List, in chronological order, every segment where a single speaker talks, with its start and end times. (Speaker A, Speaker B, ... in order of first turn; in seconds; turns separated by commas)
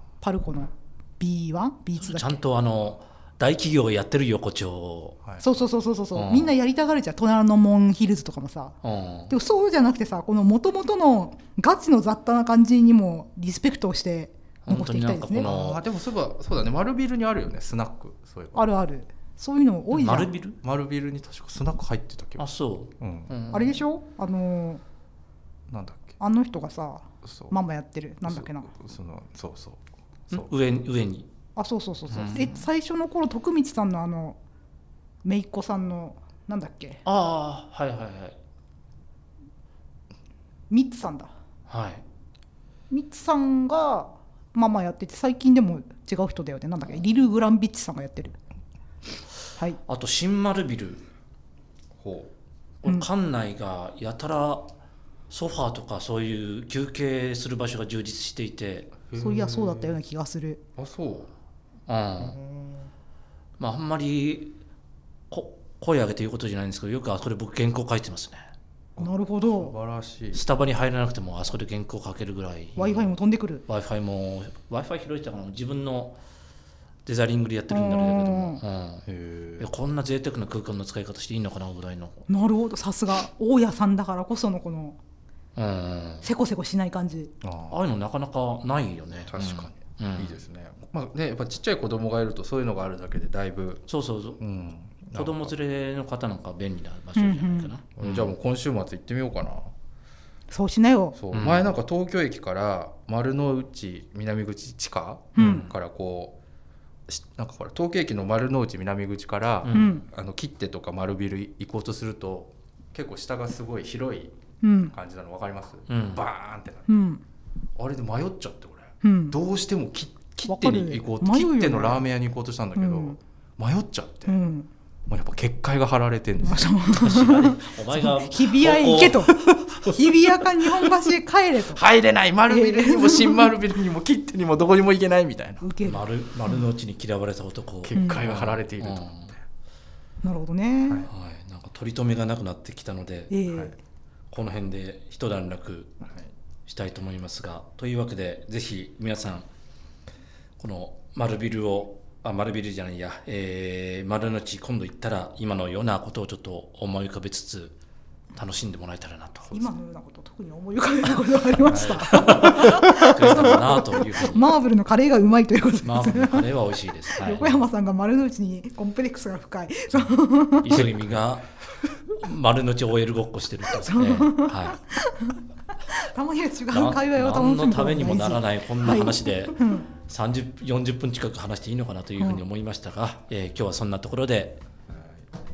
Speaker A: 0.2-2.4, Speaker B: 2.0-5.2, Speaker A: 5.4-8.8, Speaker B: 6.1-6.5, Speaker B: 8.8-9.3, Speaker A: 9.3-15.5, Speaker B: 14.6-15.8, Speaker C: 15.4-18.6, Speaker A: 18.6-20.3, Speaker B: 19.9-20.6, Speaker C: 20.6-22.5, Speaker B: 22.4-23.8, Speaker C: 23.0-23.3, Speaker A: 23.5-24.8, Speaker C: 25.7-26.2, Speaker A: 26.2-28.7, Speaker C: 27.2-27.5, Speaker C: 28.2-30.5, Speaker B: 30.3-31.3, Speaker A: 31.6-34.4, Speaker B: 32.1-32.7, Speaker A: 35.2-37.0, Speaker B: 37.0-38.4, Speaker A: 40.7-41.3, Speaker B: 41.7-42.0, Speaker A: 42.9-48.4, Speaker B: 49.9-51.0, Speaker C: 52.0-52.3, Speaker B: 52.8-54.7, Speaker B: 55.3-58.9, Speaker C: 59.1-60.0, Speaker A: 59.1-60.6, Speaker C: 60.8-61.3, Speaker B: 61.9-62.4, Speaker C: 62.2-62.9, Speaker B: 63.6-64.6, Speaker B: 65.3-68.5, Speaker C: 69.0-70.5, Speaker A: 69.0-69.8, Speaker B: 70.3-73.1, Speaker A: 72.8-73.7, Speaker B: 73.7-76.2, Speaker B: 77.1-79.0, Speaker A: 77.7-78.6, Speaker C: 79.1-79.7, Speaker B: 79.6-82.3, Speaker A: 82.3-85.0, Speaker B: 85.5-86.3, Speaker A: 86.2-87.3, Speaker C: 87.4-87.8, Speaker B: 87.7-90.4, Speaker C: 89.3-95.5, Speaker B: 93.9-94.4, Speaker B: 95.1-98.3, Speaker A: 97.2-97.7, Speaker C: 98.0-99.7, Speaker A: 100.5-101.2, Speaker C: 101.2-106.4, Speaker B: 101.3-101.7, Speaker A: 105.4-105.7, Speaker B: 105.4-105.7, Speaker C: 107.1-114.4, Speaker B: 109.6-110.0, Speaker A: 109.7-110.0, Speaker A: 114.6-114.9, Speaker C: 114.9-116.9, Speaker B: 115.9-116.2, Speaker A: 116.9-117.2, Speaker C: 117.8-124.4, Speaker A: 119.0-119.4, Speaker A: 120.5-122.0, Speaker A: 122.8-123.2, Speaker A: 124.3-124.7, Speaker C: 125.1-126.7, Speaker A: 126.4-131.8, Speaker B: 126.9-129.5, Speaker C: 129.3-130.0, Speaker C: 131.7-135.7, Speaker A: 132.5-133.5, Speaker A: 135.6-136.6, Speaker B: 135.8-139.3, Speaker C: 137.8-139.4, Speaker A: 137.9-138.2, Speaker A: 140.2-141.1, Speaker B: 141.1-143.3, Speaker A: 143.3-143.8, Speaker C: 143.5-143.7, Speaker B: 144.3-146.0, Speaker C: 146.1-146.3, Speaker B: 146.7-149.5, Speaker B: 150.6-157.8, Speaker B: 158.3-159.5, Speaker A: 159.5-170.9, Speaker C: 161.7-162.7, Speaker B: 162.0-164.6, Speaker B: 165.8-167.6, Speaker B: 170.6-171.5, Speaker C: 170.7-171.2, Speaker B: 172.1-174.8, Speaker A: 173.7-179.9, Speaker B: 176.7-184.6